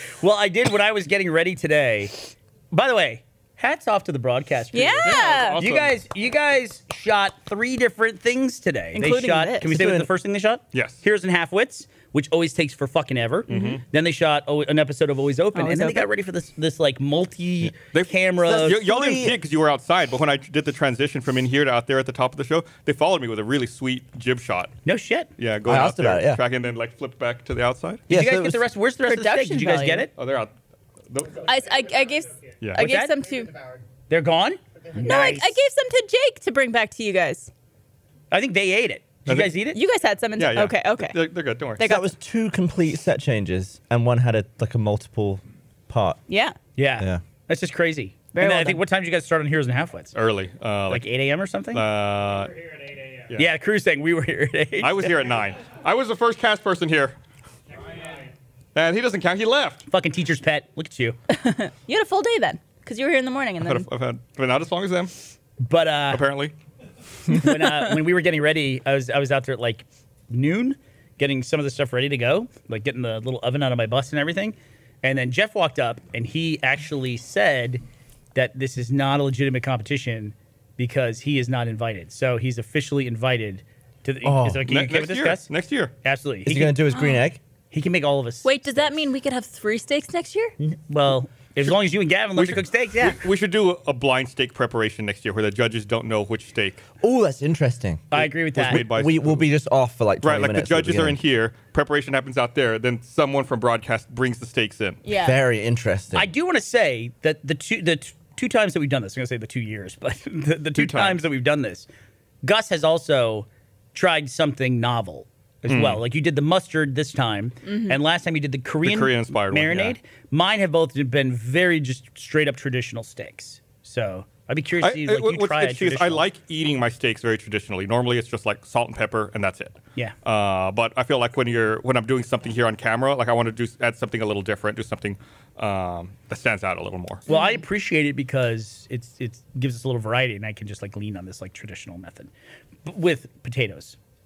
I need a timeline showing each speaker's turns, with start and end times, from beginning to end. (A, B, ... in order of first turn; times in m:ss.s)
0:00.2-0:19.2 A
0:04.7-0:05.6 B
0:05.0-0:06.0 C
0:08.9-0:09.7 B
0:09.6-0:10.1 D
0:10.7-0:11.0 C
0:13.5-0:13.8 B
0:13.5-0:13.8 C
0:15.6-0:16.1 B
0:17.6-0:24.7 C
0:18.5-0:19.4 D
0:24.8-0:25.3 A
0:25.4-0:28.0 C
0:25.6-0:26.4 D
0:28.1-0:28.7 D
0:28.1-0:30.1 A
0:29.1-0:30.1 B
0:30.2-0:30.5 C
0:31.1-0:31.5 C
0:31.4-0:33.6 B
0:32.8-0:33.2 A
0:34.1-0:35.5 A
0:35.0-0:37.5 B
0:38.3-0:39.8 A
0:39.3-0:39.6 C
0:39.7-0:41.2 B
0:40.4-0:41.8 C
0:41.8-0:42.1 B
0:41.8-0:46.2 D
0:46.3-0:46.6 B
0:46.8-0:50.2 A
0:48.3-0:48.8 B
0:50.1-0:51.1 C
0:50.9-0:51.9 A
0:51.7-0:52.6 C
0:53.3-0:55.3 A
0:54.8-0:57.2 C
0:58.8-0:59.9 C
0:59.9-1:01.2 A
1:01.3-1:03.9 B
1:03.6-1:05.1 C
1:05.6-1:06.3 A
1:06.1-1:06.5 C
1:07.3-1:17.8 A
1:18.4-1:25.5 A
1:24.2-1:24.7 D
1:24.7-1:25.9 C
1:26.0-1:26.8 A
1:26.5-1:27.4 D
1:27.0-1:27.2 B
1:27.7-1:28.9 A
1:28.4-1:30.5 B
1:30.6-1:33.2 A
1:32.4-1:36.8 C
1:37.0-1:41.2 D
1:38.1-1:38.9 A
1:38.1-1:39.5 C
1:40.2-1:45.0 C
1:45.0-1:45.4 B
1:45.2-1:46.3 D
1:46.2-1:51.9 A
1:50.8-1:51.2 C
1:52.4-2:06.2 A
1:55.7-1:56.0 C
1:57.6-1:58.0 B
1:58.8-2:00.0 C
2:04.8-2:17.2 C
2:17.3-2:17.6 B
2:17.3-2:22.3 A
2:22.8-2:24.0 A